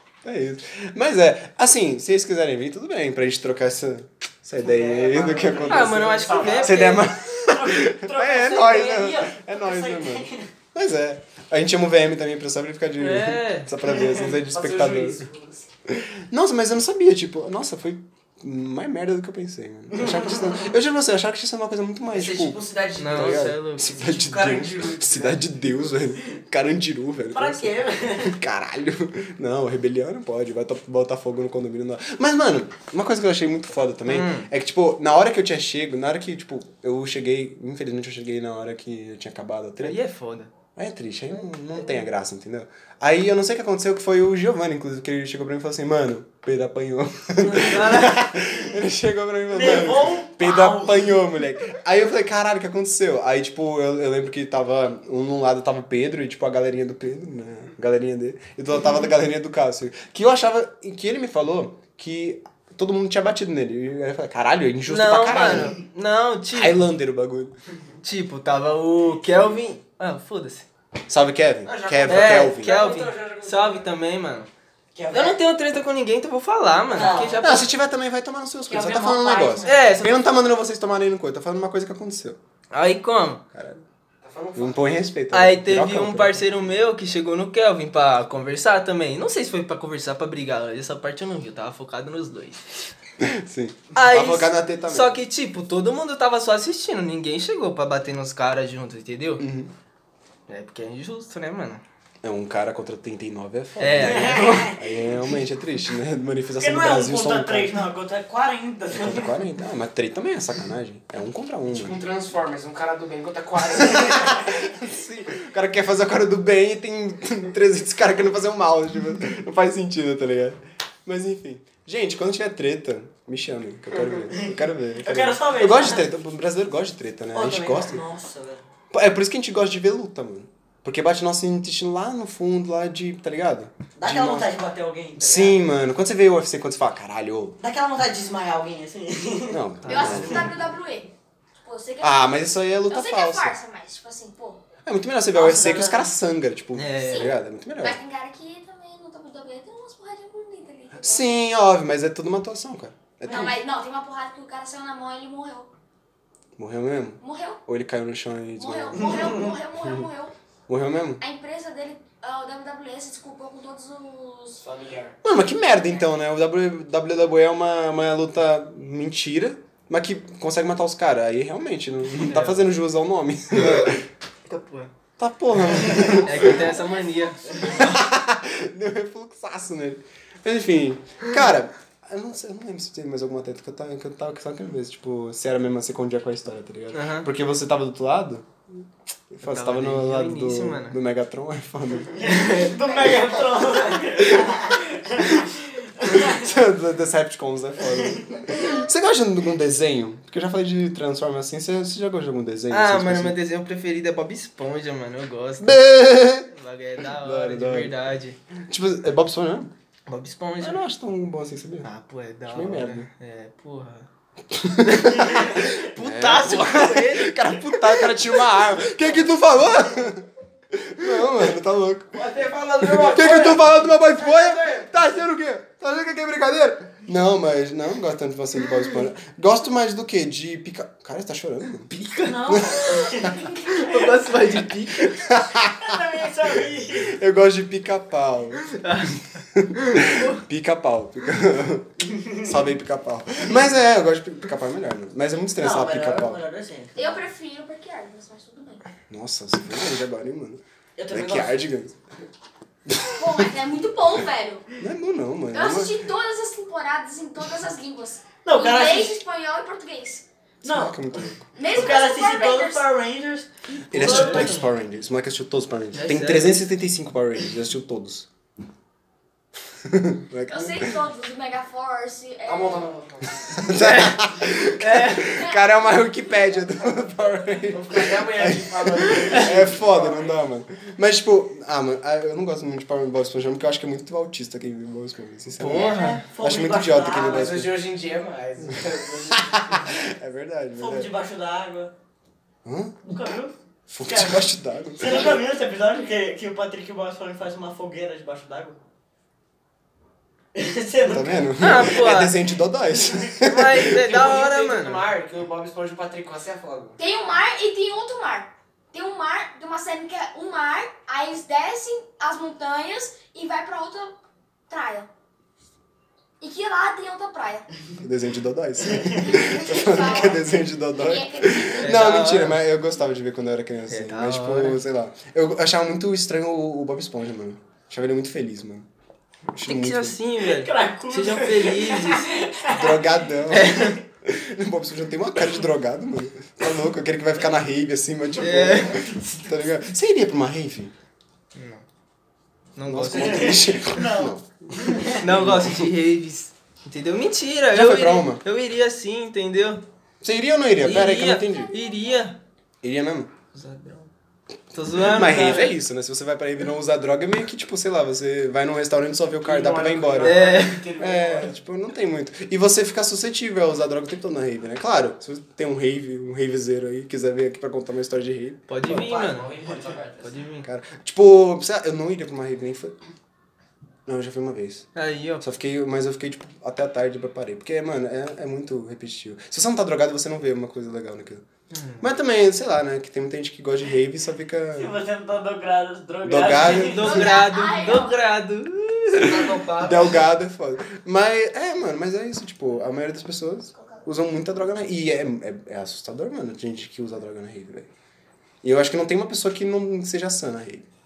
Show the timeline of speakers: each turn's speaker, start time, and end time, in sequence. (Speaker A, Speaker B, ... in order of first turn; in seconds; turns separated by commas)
Speaker A: 0.2-15.3, Speaker B: 4.7-6.7, Speaker C: 4.7-10.5, Speaker D: 5.7-7.0, Speaker D: 13.0-13.7, Speaker B: 14.4-15.6, Speaker A: 15.9-40.0, Speaker B: 22.1-25.9, Speaker D: 23.0-24.0, Speaker C: 27.3-28.4, Speaker D: 34.1-34.5, Speaker D: 39.8-40.5, Speaker A: 40.8-65.8, Speaker D: 47.4-48.2, Speaker C: 49.5-51.2, Speaker D: 64.9-66.9, Speaker A: 66.5-67.6, Speaker D: 68.0-70.7, Speaker A: 71.1-72.7, Speaker B: 71.6-73.9, Speaker D: 72.1-74.5, Speaker C: 75.0-75.4, Speaker D: 75.1-77.8, Speaker C: 76.9-77.5, Speaker A: 77.4-82.4, Speaker C: 78.7-79.8, Speaker D: 79.7-80.2, Speaker D: 82.7-83.4, Speaker A: 83.5-83.8, Speaker B: 84.2-85.0, Speaker A: 84.5-86.5, Speaker D: 85.3-92.7, Speaker A: 93.2-95.2, Speaker D: 94.0-99.4, Speaker A: 99.4-99.7, Speaker D: 100.5-101.8, Speaker A: 102.2-107.8, Speaker D: 103.8-104.6, Speaker C: 104.0-105.0, Speaker C: 106.6-109.5, Speaker A: 108.9-112.0, Speaker B: 111.7-114.7, Speaker A: 113.8-128.0, Speaker C: 124.4-126.1, Speaker C: 127.3-128.6, Speaker A: 128.9-134.5, Speaker C: 134.0-135.7, Speaker A: 135.2-137.6, Speaker C: 137.6-139.6, Speaker A: 139.5-140.5, Speaker D: 139.8-140.6, Speaker E: 139.9-141.1, Speaker E: 141.6-144.6, Speaker A: 142.0-143.6, Speaker A: 144.8-148.0, Speaker C: 145.3-146.1, Speaker D: 146.8-147.3, Speaker E: 147.0-151.3, Speaker A: 151.0-153.6, Speaker E: 153.2-155.7, Speaker C: 153.2-153.5, Speaker A: 156.6-159.5, Speaker E: 157.2-157.6, Speaker E: 158.6-160.3, Speaker A: 160.7-161.2, Speaker E: 161.2-164.6, Speaker B: 164.6-165.2, Speaker A: 165.2-174.1, Speaker D: 172.2-172.7, Speaker D: 174.5-174.9, Speaker A: 175.2-176.7, Speaker D: 175.9-178.0, Speaker E: 176.2-176.9, Speaker A: 177.6-188.5, Speaker D: 186.9-187.3, Speaker A: 189.3-192.2, Speaker D: 189.4-191.0, Speaker C: 192.1-196.5, Speaker D: 192.2-192.8, Speaker A: 194.2-195.4, Speaker A: 196.0-203.4, Speaker C: 197.9-198.4, Speaker D: 202.7-205.8, Speaker A: 205.6-206.5, Speaker D: 206.5-208.4, Speaker A: 207.1-207.9, Speaker A: 208.6-209.7, Speaker D: 210.1-210.8, Speaker A: 210.6-211.9, Speaker D: 211.8-214.1, Speaker A: 212.5-213.1, Speaker A: 214.5-222.2, Speaker D: 214.8-218.4, Speaker B: 222.1-225.0, Speaker A: 222.8-231.9, Speaker D: 231.9-235.1, Speaker C: 232.2-234.2, Speaker A: 235.0-236.0, Speaker C: 235.8-237.1, Speaker A: 236.9-238.8, Speaker D: 238.7-240.4, Speaker A: 239.5-246.4, Speaker C: 245.6-247.3, Speaker E: 246.9-248.8, Speaker A: 249.1-252.0, Speaker C: 251.0-251.7, Speaker A: 252.9-253.4, Speaker E: 253.1-254.7, Speaker A: 254.8-255.9, Speaker E: 255.5-260.2, Speaker C: 258.4-259.2, Speaker A: 260.6-261.5, Speaker C: 260.6-264.6, Speaker E: 261.6-262.9, Speaker A: 263.9-268.3, Speaker D: 263.9-264.7, Speaker D: 265.9-266.6, Speaker A: 269.8-271.1, Speaker E: 270.5-273.0, Speaker B: 272.5-273.5, Speaker A: 273.4-287.8, Speaker D: 273.6-275.4, Speaker E: 275.3-275.7, Speaker B: 277.7-280.4, Speaker D: 285.6-286.2, Speaker C: 285.8-287.6, Speaker B: 287.2-289.9, Speaker A: 289.3-291.1, Speaker C: 290.8-291.9, Speaker A: 292.6-293.0, Speaker C: 293.1-298.8, Speaker A: 293.9-295.4, Speaker C: 300.6-301.8, Speaker A: 301.1-304.1, Speaker D: 301.6-302.5, Speaker D: 303.4-305.0, Speaker B: 304.0-307.0, Speaker E: 307.0-314.2, Speaker E: 314.7-315.1, Speaker E: 316.4-317.7, Speaker A: 318.0-328.9, Speaker C: 319.0-319.4, Speaker E: 319.2-322.1, Speaker D: 321.8-322.6, Speaker D: 323.9-324.8, Speaker A: 329.5-330.2, Speaker D: 329.6-332.3, Speaker C: 330.4-333.3, Speaker A: 332.7-340.9, Speaker D: 333.5-334.0, Speaker D: 338.4-339.0, Speaker D: 341.6-341.8, Speaker D: 342.8-343.8, Speaker A: 342.9-345.9, Speaker C: 343.1-345.2, Speaker D: 345.0-349.8, Speaker A: 347.7-348.4, Speaker A: 350.2-351.7, Speaker D: 350.8-352.4, Speaker E: 351.5-352.2, Speaker A: 352.8-353.3, Speaker D: 353.5-354.1, Speaker D: 354.7-355.8, Speaker A: 355.0-369.1, Speaker B: 359.4-361.5, Speaker D: 360.2-360.9, Speaker D: 368.7-369.6, Speaker B: 368.9-370.4, Speaker D: 370.2-370.7, Speaker A: 370.6-373.0, Speaker A: 374.1-374.9, Speaker D: 374.9-375.4, Speaker A: 375.4-381.4, Speaker D: 381.7-382.1, Speaker A: 382.0-385.0, Speaker C: 384.7-387.3, Speaker A: 386.2-387.2, Speaker D: 386.6-389.5, Speaker E: 387.0-388.2, Speaker A: 389.2-397.9, Speaker B: 389.2-390.2, Speaker E: 393.8-394.1, Speaker A: 398.6-400.9